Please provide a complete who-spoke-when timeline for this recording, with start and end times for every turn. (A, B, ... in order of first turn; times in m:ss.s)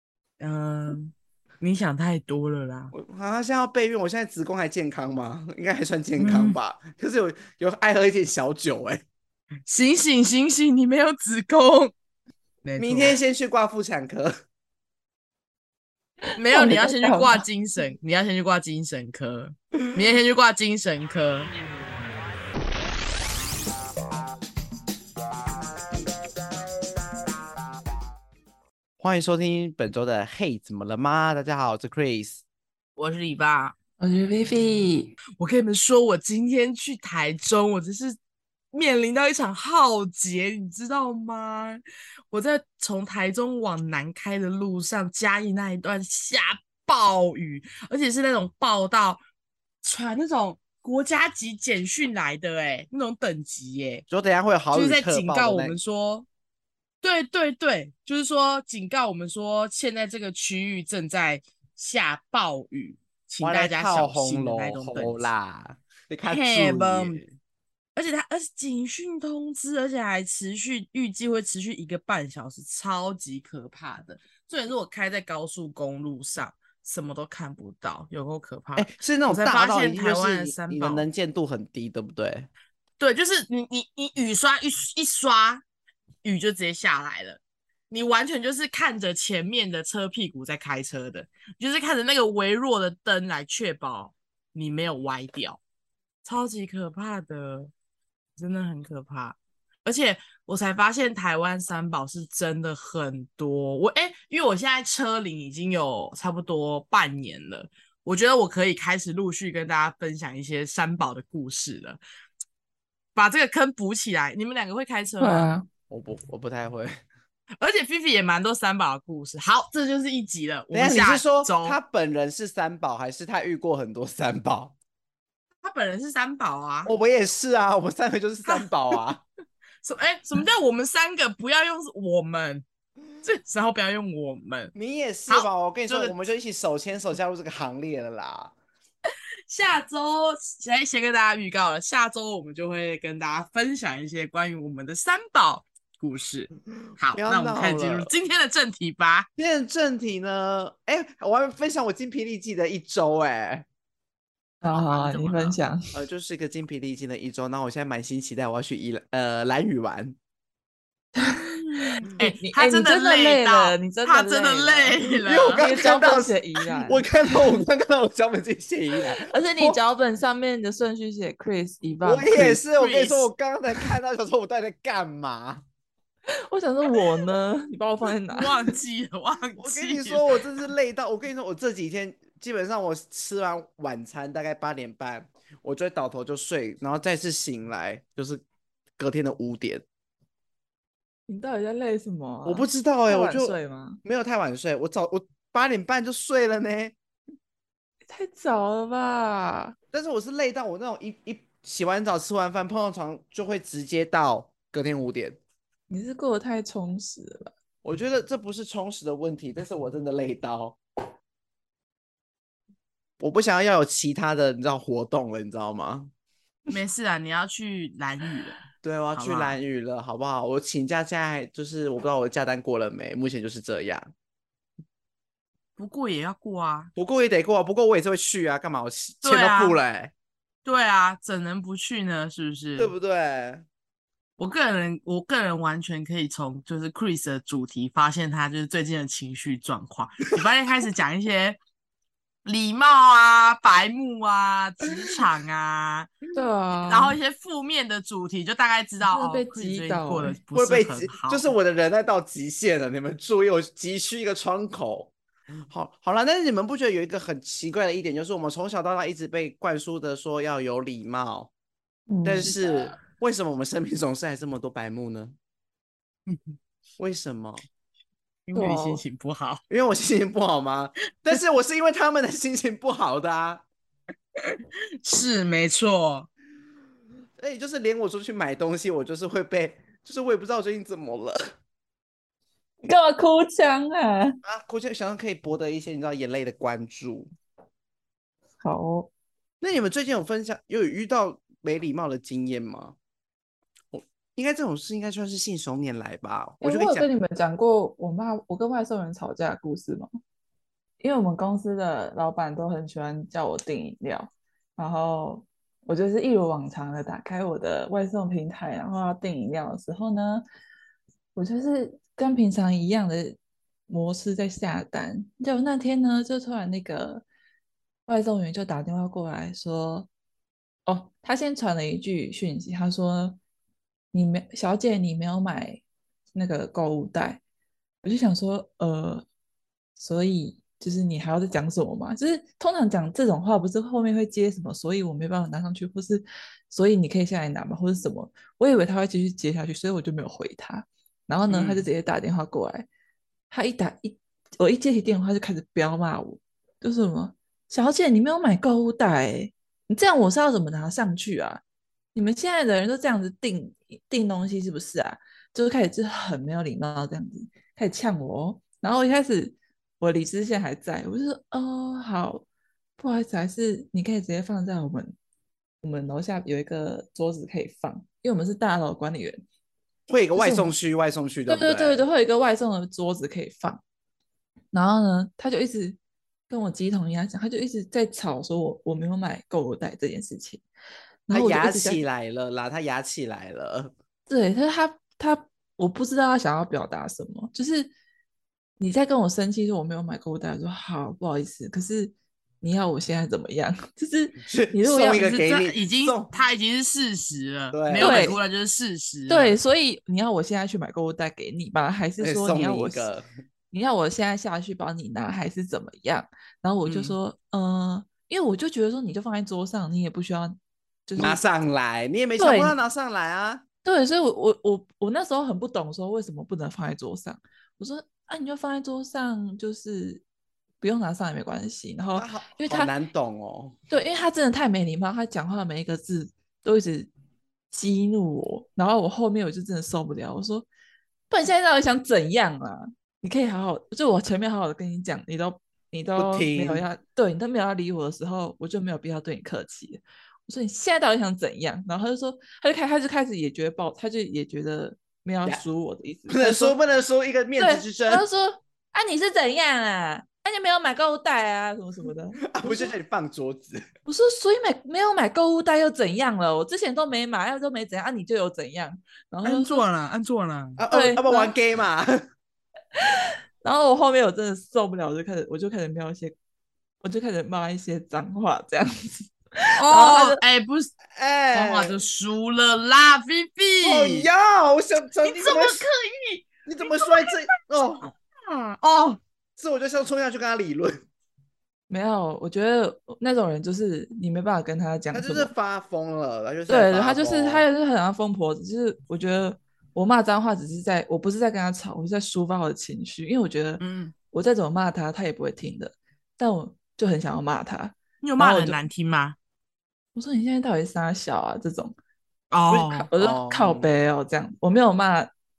0:00.4-0:02.9 A
0:02.9-0:09.0 B
0:06.2-0:06.6 A
0:09.7-0:11.9 A
0:12.6-0:13.2 A
0:12.8-0:14.3 B
0:16.3-0:17.4 C
0:16.4-0:21.5 A
0:29.0-0:32.4 B
0:33.0-0:33.8 A
0:34.0-0:35.2 C
0:35.4-0:38.2 A
0:38.7-0:49.2 A
0:49.8-0:54.0 A
0:54.1-0:55.8 B
0:54.7-0:56.3 A
0:57.0-1:05.3 A
1:03.4-1:07.3 B
1:06.3-1:07.2 A
1:07.9-1:21.0 A
1:18.8-1:22.5 B
1:23.0-1:25.6 A
1:26.2-1:35.6 A
1:36.2-1:37.7 A
1:38.4-1:52.0 A
1:53.1-1:55.5 A
1:55.2-1:55.7 C
1:55.9-1:56.9 B
1:57.6-2:01.8 A
2:00.7-2:04.7 B
2:05.6-2:06.9 A
2:06.8-2:09.2 B
2:08.4-2:08.7 A
2:09.8-2:12.6 A
2:13.2-2:14.7 A
2:14.8-2:18.5 B
2:15.3-2:16.1 A
2:19.5-2:29.3 A
2:27.2-2:28.1 B
2:29.4-2:33.6 B
2:34.6-2:36.0 C
2:34.7-2:35.6 A
2:35.9-2:40.2 B
2:41.2-2:45.0 C
2:41.4-2:45.6 A
2:45.2-2:49.8 B
2:45.5-2:47.1 C
2:49.2-2:52.6 C
2:52.0-2:55.6 B
2:52.8-2:53.3 A
2:56.5-2:58.8 C
2:58.3-3:00.4 A
2:59.6-3:08.4 B
3:09.0-3:09.8 B
3:11.3-3:14.0 C
3:12.4-3:16.9 B
3:18.1-3:19.8 C
3:19.9-3:25.4 B
3:25.9-3:27.5 C
3:27.8-3:30.8 B
3:33.2-3:36.1 B
3:36.7-3:38.6 A
3:38.8-3:44.1 B
3:39.2-3:39.6 A
3:45.8-3:46.9 A
3:47.0-3:50.1 B
3:49.2-3:49.8 A
3:50.6-3:52.9 A
3:52.8-3:53.6 B
3:54.4-4:01.6 A
4:02.4-4:06.2 A
4:06.3-4:07.2 C
4:06.9-4:11.5 A
4:09.1-4:10.4 C
4:10.6-4:15.1 B
4:15.7-4:21.5 B
4:22.1-4:23.0 C
4:22.2-4:25.4 B
4:26.3-4:26.5 A
4:27.0-4:27.6 B
4:28.5-4:29.6 A
4:28.6-4:29.0 C
4:29.7-4:33.6 B
4:34.4-4:36.3 A
4:37.4-4:41.4 B
4:42.8-4:44.4 C
4:44.4-4:47.3 B
4:48.6-4:49.1 C
4:49.6-4:52.9 B
4:53.9-4:57.1 B
4:56.6-5:00.1 C
5:01.0-5:10.4 C
5:11.4-5:17.2 C
5:18.1-5:20.1 C
5:20.9-5:23.4 C
5:24.1-5:25.8 C
5:26.3-5:27.4 C
5:28.0-5:29.2 C
5:30.0-5:42.9 C
5:41.5-5:41.8 A
5:43.5-5:51.6 C
5:52.1-6:02.4 C
6:03.0-6:05.1 C
6:05.8-6:09.4 C
6:10.1-6:12.0 B
6:10.4-6:10.7 C
6:11.5-6:13.8 C
6:14.7-6:16.0 C
6:16.5-6:20.6 C
6:21.3-6:22.0 C
6:21.3-6:23.9 B
6:24.3-6:27.9 C
6:28.8-6:35.3 C
6:34.4-6:36.3 B
6:35.1-6:39.6 A
6:37.7-6:38.4 B
6:37.9-6:38.4 C
6:39.3-6:43.1 C
6:42.2-6:43.3 B
6:43.7-6:51.4 C
6:46.8-6:47.2 A
6:51.2-6:53.6 B
6:52.4-6:52.8 C
6:53.8-7:00.2 C
7:00.8-7:02.9 C
7:02.1-7:03.8 B
7:03.9-7:07.1 C
7:07.7-7:10.7 C
7:11.3-7:26.8 C
7:16.2-7:16.8 B
7:26.3-7:28.2 B
7:27.6-7:32.9 C
7:32.5-7:33.8 B
7:34.1-7:39.8 C
7:39.4-7:40.8 A
7:40.8-7:42.2 B
7:40.9-7:41.5 C
7:43.6-7:46.4 C
7:47.0-7:50.4 C
7:49.8-7:50.9 A
7:51.1-7:52.0 B
7:51.5-7:54.3 A
7:53.8-7:55.9 B
7:55.2-7:57.4 A
7:56.6-7:58.1 B
7:58.0-7:59.2 A
7:59.6-8:01.0 B
8:01.9-8:05.5 C
8:05.1-8:07.6 B
8:06.7-8:18.8 C
8:13.8-8:14.1 A
8:18.2-8:19.4 A
8:20.1-8:21.9 C
8:22.5-8:23.1 A
8:22.7-8:25.3 C
8:23.2-8:23.9 B